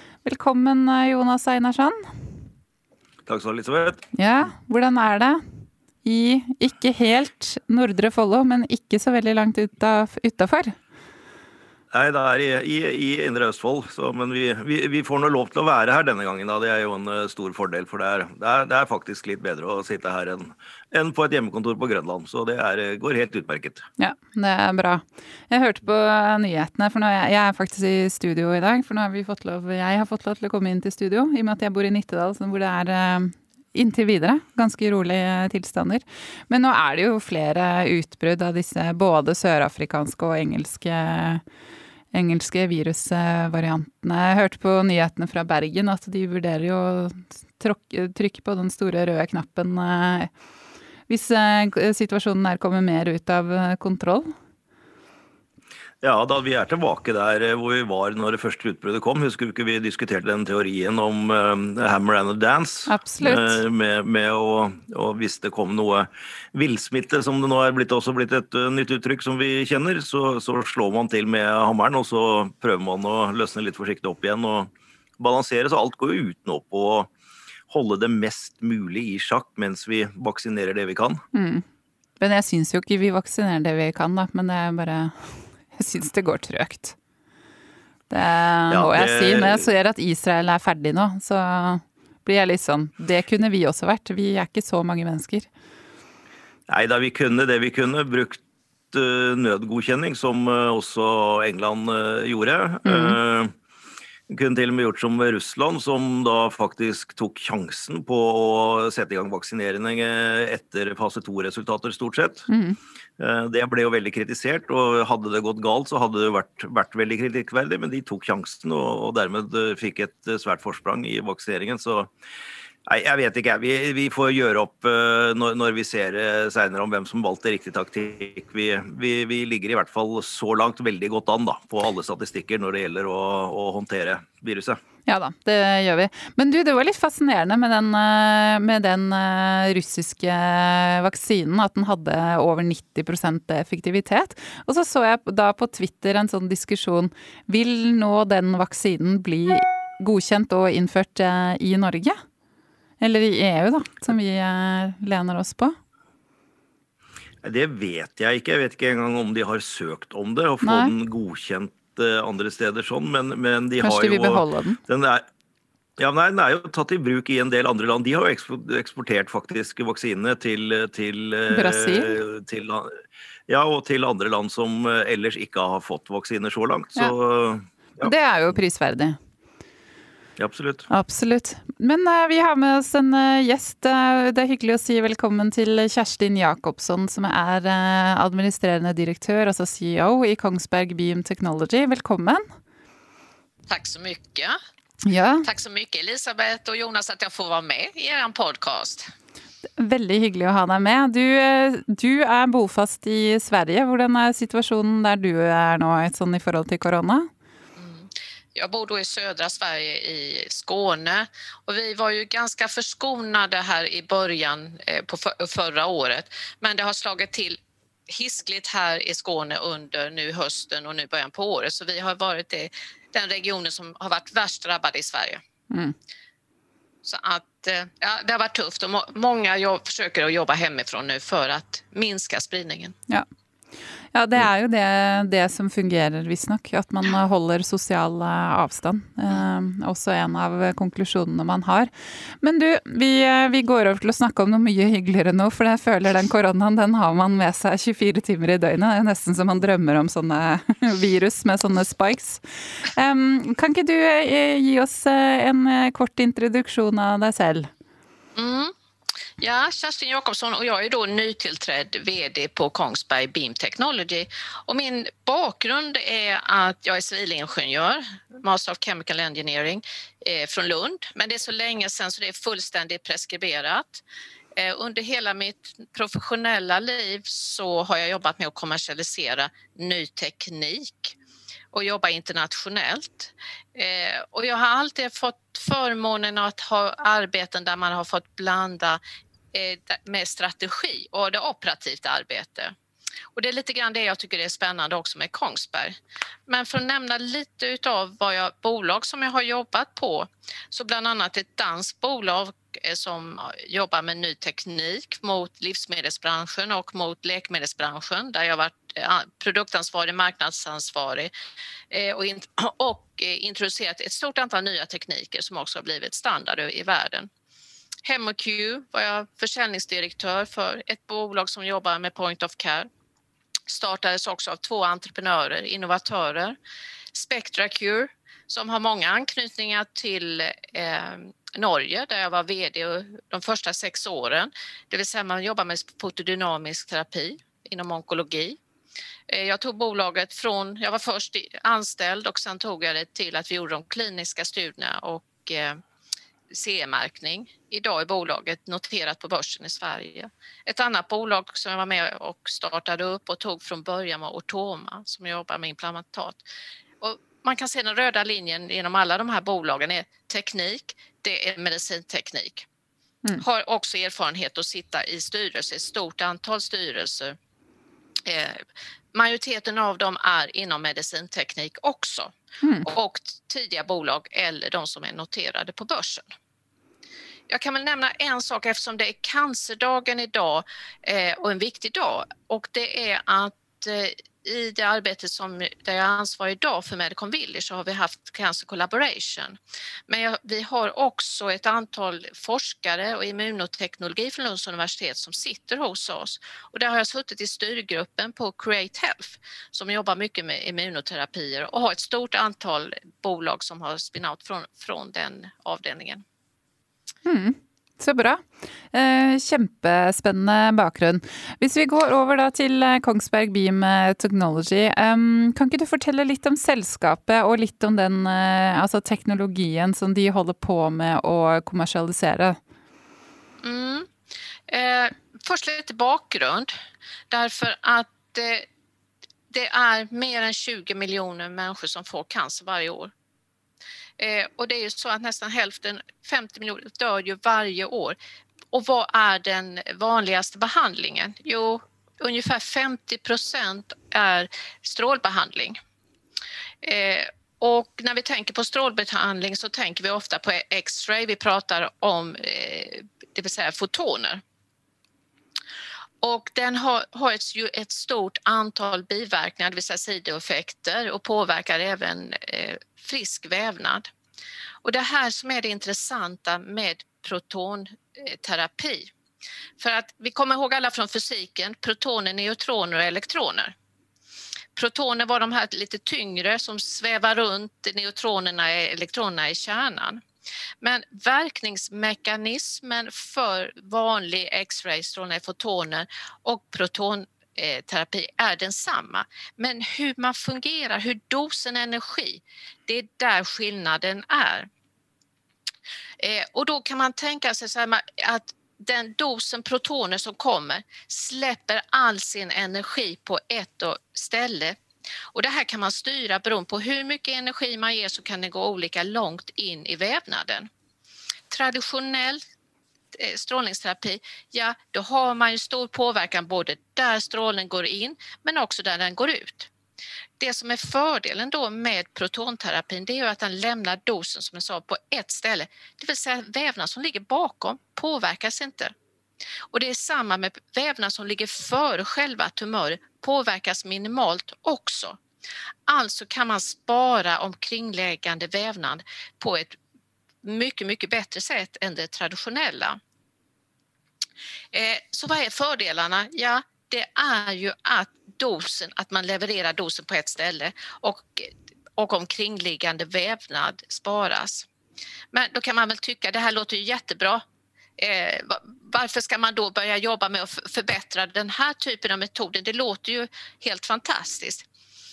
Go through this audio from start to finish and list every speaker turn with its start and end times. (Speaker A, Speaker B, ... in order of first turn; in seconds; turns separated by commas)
Speaker A: 0.2-2.1, Speaker B: 3.3-4.0, Speaker A: 4.1-5.4, Speaker A: 6.0-10.8, Speaker B: 11.9-23.8, Speaker A: 24.0-41.4, Speaker A: 42.1-50.3, Speaker A: 51.1-54.3, Speaker B: 56.0-77.1, Speaker A: 62.9-63.6, Speaker B: 77.7-81.2, Speaker A: 81.3-81.7, Speaker A: 82.2-87.0, Speaker A: 88.1-95.5, Speaker B: 88.7-89.7, Speaker B: 96.7-103.5, Speaker A: 102.8-103.2, Speaker B: 104.3-112.5, Speaker A: 112.5-112.8, Speaker B: 113.2-122.1, Speaker B: 122.9-134.8, Speaker A: 135.1-152.2, Speaker A: 153.0-155.8, Speaker B: 157.4-165.2, Speaker A: 160.6-160.9, Speaker A: 163.8-164.8, Speaker B: 166.0-178.1, Speaker A: 171.5-172.2, Speaker A: 178.0-179.2, Speaker B: 180.4-180.9, Speaker A: 180.9-192.4, Speaker C: 193.7-194.6, Speaker A: 195.0-195.5, Speaker C: 195.4-199.1, Speaker A: 199.8-207.3, Speaker C: 207.8-225.4, Speaker C: 227.1-232.9, Speaker A: 234.1-257.7, Speaker C: 258.4-258.7, Speaker C: 259.4-274.0, Speaker C: 274.6-281.2, Speaker C: 281.7-289.0, Speaker C: 289.5-292.8, Speaker C: 293.4-295.9, Speaker C: 296.5-311.3, Speaker C: 311.9-317.3, Speaker C: 318.0-322.9, Speaker C: 323.7-326.6, Speaker C: 327.1-338.6, Speaker C: 339.3-345.8, Speaker C: 346.5-356.4, Speaker C: 357.0-362.7, Speaker C: 363.4-367.4, Speaker C: 368.2-368.6, Speaker C: 369.1-376.3, Speaker A: 372.6-372.9, Speaker C: 377.5-406.2, Speaker A: 407.2-422.6, Speaker C: 423.6-424.1, Speaker C: 424.7-426.7, Speaker C: 427.3-428.7, Speaker C: 429.5-433.1, Speaker C: 434.2-438.2, Speaker C: 438.7-445.8, Speaker C: 446.8-454.4, Speaker C: 456.2-464.1, Speaker C: 464.8-469.1, Speaker C: 469.8-473.8, Speaker C: 474.8-480.2, Speaker C: 480.8-494.7, Speaker C: 496.2-504.8, Speaker C: 505.3-510.7, Speaker C: 511.5-512.4, Speaker C: 513.1-519.7, Speaker C: 520.4-528.9, Speaker C: 529.7-535.2, Speaker C: 535.9-539.8, Speaker C: 540.4-543.0, Speaker C: 544.7-554.7, Speaker C: 555.3-557.4, Speaker C: 558.0-564.7